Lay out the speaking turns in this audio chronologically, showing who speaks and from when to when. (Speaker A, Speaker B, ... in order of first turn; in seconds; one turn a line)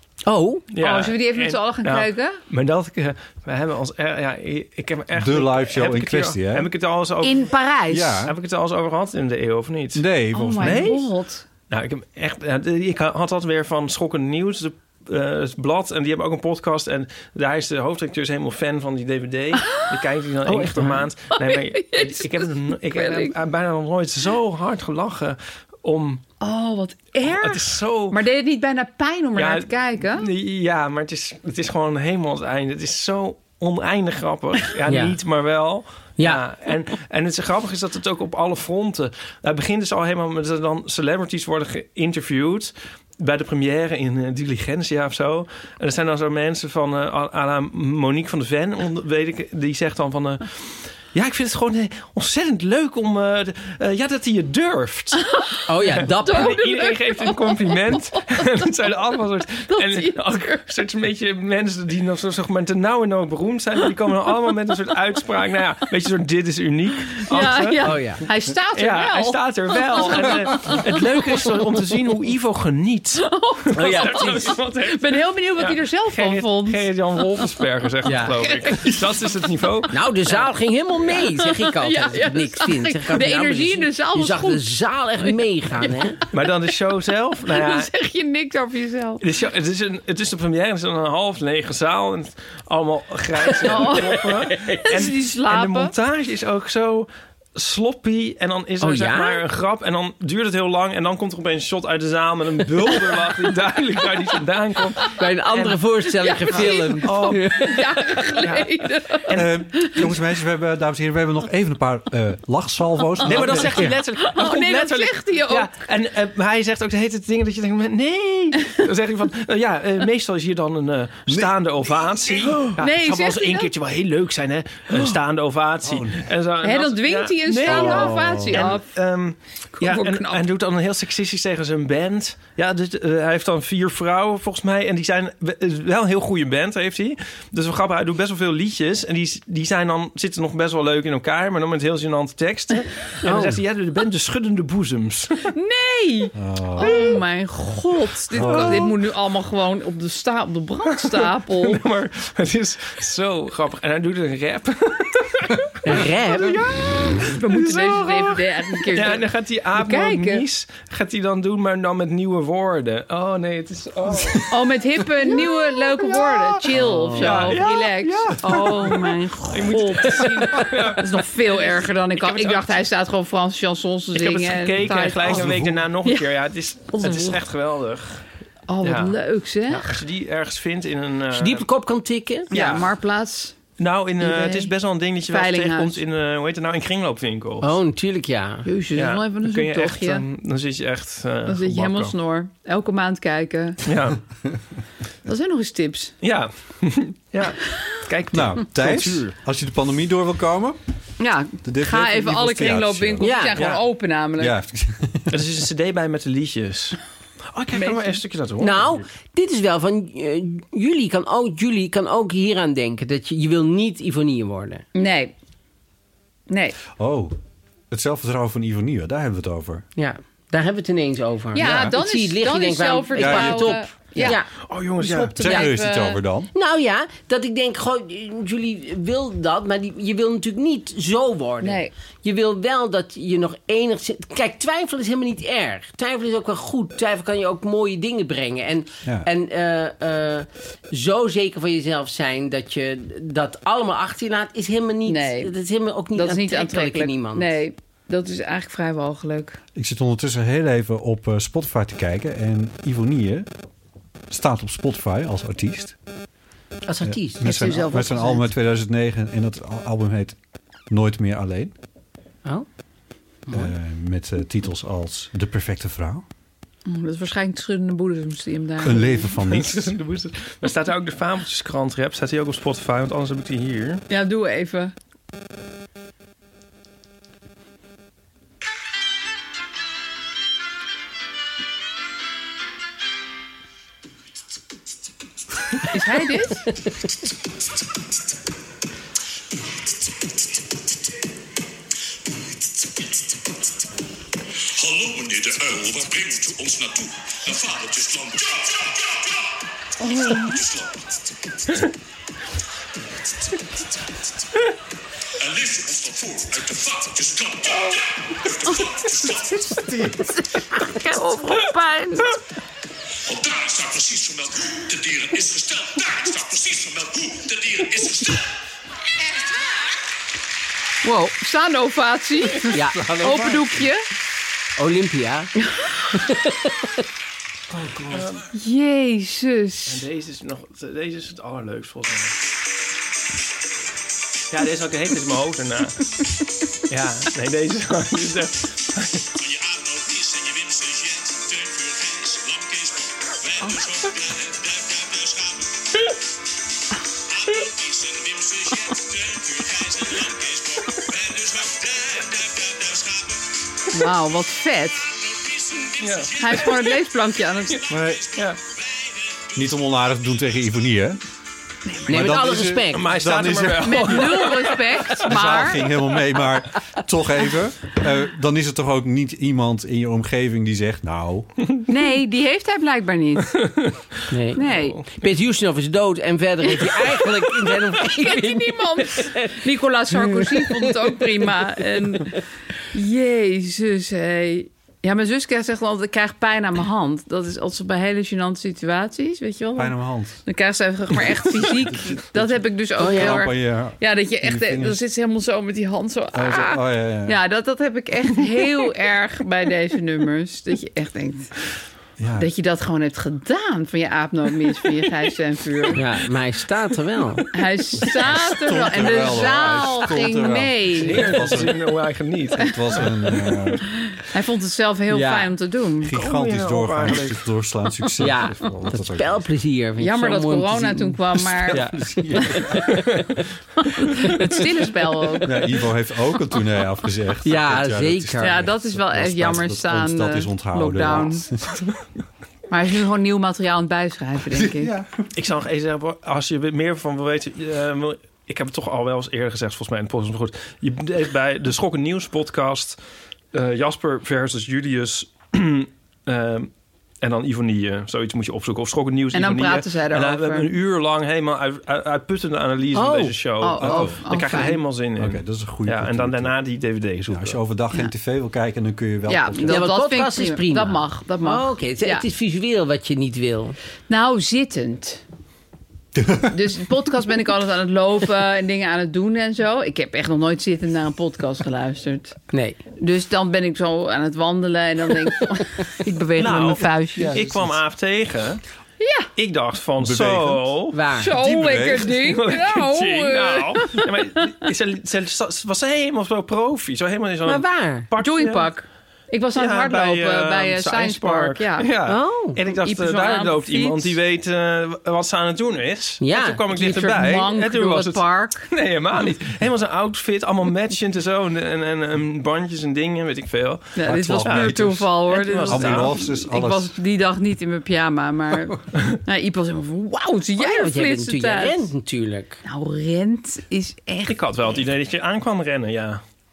Speaker A: 0.2-0.7
Speaker B: 0.7-7.5
Speaker C: 0.8-2.4
Speaker D: 5.1-6.7
Speaker C: 7.2-8.2
Speaker D: 7.9-8.3
Speaker B: 8.2-10.1
Speaker D: 9.9-10.9
Speaker C: 10.3-11.4
Speaker B: 10.6-11.1
Speaker B: 11.7-26.2
Speaker A: 20.5-21.1
Speaker C: 21.3-23.3
Speaker C: 26.4-30.3
Speaker B: 27.3-28.2
Speaker B: 29.4-55.3
Speaker A: 34.9-35.1
Speaker C: 55.3-55.6
Speaker A: 55.7-56.6
Speaker B: 55.8-68.0
Speaker C: 56.2-58.4
Speaker C: 59.7-60.6
Speaker C: 67.3-71.0
Speaker A: 67.8-68.2
Speaker B: 68.8-79.9
Speaker C: 73.2-76.9
Speaker A: 73.7-74.5
Speaker A: 78.0-78.3
Speaker C: 78.4-79.0
Speaker A: 79.9-86.2
Speaker C: 81.1-84.6
Speaker C: 85.2-86.3
Speaker B: 86.3-87.9
Speaker C: 87.5-89.2
Speaker B: 89.2-108.7
Speaker C: 93.6-94.3
Speaker A: 93.6-94.9
Speaker C: 94.8-95.9
Speaker A: 98.8-99.4
Speaker A: 105.2-107.9
Speaker C: 106.2-110.0
Speaker B: 109.3-109.5
Speaker D: 109.3-114.0
Speaker B: 113.2-145.4
Speaker C: 114.1-115.7
Speaker D: 121.3-121.5
Speaker D: 122.3-122.7
Speaker C: 122.8-123.7
Speaker D: 125.8-126.3
Speaker C: 126.6-128.9
Speaker D: 127.6-128.8
Speaker C: 129.8-130.4
Speaker A: 143.2-143.6
Speaker C: 145.5-151.8
Speaker D: 146.3-147.2
Speaker D: 148.3-148.9
Speaker B: 148.4-148.8
Speaker B: 150.9-164.5
Speaker A: 155.8-157.2
Speaker C: 157.2-160.4
Speaker C: 164.5-175.5
Speaker D: 166.1-167.4
Speaker A: 166.8-167.6
Speaker B: 167.2-172.8
Speaker B: 174.1-178.2
Speaker D: 175.2-175.8
Speaker C: 176.9-177.4
Speaker C: 178.7-179.9
Speaker B: 178.8-179.2
Speaker B: 179.7-181.7
Speaker A: 181.3-182.5
Speaker C: 182.5-183.6
Speaker B: 182.5-182.9
Speaker B: 183.8-187.7
Speaker C: 184.2-184.7
Speaker C: 185.3-186.0
Speaker A: 187.6-188.7
Speaker C: 188.6-190.2
Speaker B: 188.9-192.1
Speaker C: 191.4-193.8
Speaker B: 193.8-194.2
Speaker C: 195.3-196.1
Speaker B: 196.2-199.3
Speaker D: 198.3-200.8
Speaker C: 201.2-204.5
Speaker D: 201.6-203.7
Speaker A: 203.2-203.6
Speaker D: 204.4-205.4
Speaker B: 205.3-207.0
Speaker B: 207.5-209.1
Speaker C: 207.7-208.2
Speaker A: 208.6-214.8
Speaker C: 214.9-215.3
Speaker C: 216.5-216.8
Speaker D: 216.9-217.3
Speaker D: 217.9-219.8
Speaker A: 219.9-224.5
Speaker C: 221.5-224.4
Speaker D: 221.6-221.9
Speaker D: 223.1-224.3
Speaker B: 224.7-225.4
Speaker C: 225.0-226.2
Speaker D: 225.0-226.5
Speaker A: 226.5-247.5
Speaker C: 231.6-231.9
Speaker C: 245.1-245.5
Speaker C: 246.1-249.6
Speaker D: 249.8-253.5
Speaker D: 254.3-256.0
Speaker A: 256.9-258.0
Speaker D: 257.1-260.4
Speaker C: 257.4-258.4
Speaker D: 260.9-261.7
Speaker A: 263.4-263.7
Speaker D: 263.5-266.2
Speaker C: 266.9-269.3
Speaker D: 268.8-269.9
Speaker B: 269.5-274.0
Speaker C: 274.1-274.9
Speaker C: 285.9-286.7
Speaker E: 294.7-299.6
Speaker C: 300.0-300.6
Speaker E: 300.3-301.2
Speaker E: 305.4-309.6
Speaker C: 309.9-312.4
Speaker E: 313.3-318.5
Speaker C: 321.0-324.0
Speaker A: 322.7-323.1
Speaker D: 322.9-323.8
Speaker A: 324.8-325.5
Speaker A: 326.1-326.7
Speaker D: 327.7-328.4
Speaker B: 328.1-328.5
Speaker C: 328.5-330.0
Speaker B: 329.9-332.4
Speaker B: 334.5-336.1
Speaker B: 336.9-339.3
Speaker E: 339.3-345.7
Speaker E: 347.3-353.4
Speaker C: 353.9-355.1
Speaker E: 355.1-356.9
Speaker B: 356.0-356.5
Speaker C: 356.4-357.8
Speaker D: 357.9-358.2
Speaker E: 358.8-359.4
Speaker D: 359.5-361.2
Speaker D: 362.1-364.4
Speaker A: 362.1-363.1
Speaker B: 362.9-365.3
Speaker C: 363.8-365.9
Speaker D: 365.2-371.5
Speaker C: 371.9-373.6
Speaker B: 373.7-373.9
Speaker A: 374.3-379.6
Speaker C: 374.6-375.0
Speaker B: 374.6-375.0
Speaker C: 376.7-376.9
Speaker C: 378.0-382.4
Speaker A: 380.1-381.4
Speaker C: 382.9-401.5
Speaker D: 389.8-390.4
Speaker D: 391.8-395.0
Speaker A: 393.0-393.5
Speaker D: 396.3-397.4
Speaker D: 402.2-402.5
Speaker C: 402.4-406.0
Speaker A: 405.9-407.5
Speaker C: 407.5-411.6
Speaker D: 408.0-411.9
Speaker B: 410.9-413.1
Speaker D: 412.6-413.8
Speaker C: 414.1-416.1
Speaker A: 415.1-415.5
Speaker D: 416.0-419.5
Speaker B: 416.1-417.4
Speaker A: 418.2-423.2
Speaker C: 420.0-422.8
Speaker D: 421.6-422.9
Speaker C: 424.0-425.7
Speaker D: 425.4-431.9
Speaker A: 427.4-428.6
Speaker C: 428.4-431.4
Speaker C: 432.7-434.9
Speaker D: 434.5-435.3
Speaker B: 435.3-443.0
Speaker B: 443.5-446.7
Speaker B: 447.2-457.6
Speaker C: 449.3-450.7
Speaker A: 452.9-453.3
Speaker C: 453.6-454.8
Speaker D: 453.8-454.2
Speaker D: 455.2-456.6
Speaker D: 457.3-459.9
Speaker C: 459.3-462.3
Speaker A: 459.7-463.8
Speaker C: 464.1-465.2
Speaker D: 466.1-466.5
Speaker C: 466.5-472.4
Speaker A: 472.5-472.8
Speaker C: 473.0-477.4
Speaker B: 476.4-478.6
Speaker D: 477.1-477.8
Speaker C: 479.0-479.3
Speaker B: 479.4-481.0
Speaker D: 480.0-482.1
Speaker A: 480.9-481.4
Speaker C: 481.2-484.1
Speaker B: 481.7-488.7
Speaker A: 487.4-488.1
Speaker C: 488.2-491.9
Speaker B: 489.6-506.1
Speaker A: 492.1-492.6
Speaker C: 492.6-494.2
Speaker A: 496.2-496.6
Speaker C: 496.7-498.6
Speaker C: 503.9-511.9
Speaker D: 504.1-506.9
Speaker A: 510.6-512.6
Speaker C: 512.6-514.3
Speaker B: 514.3-516.2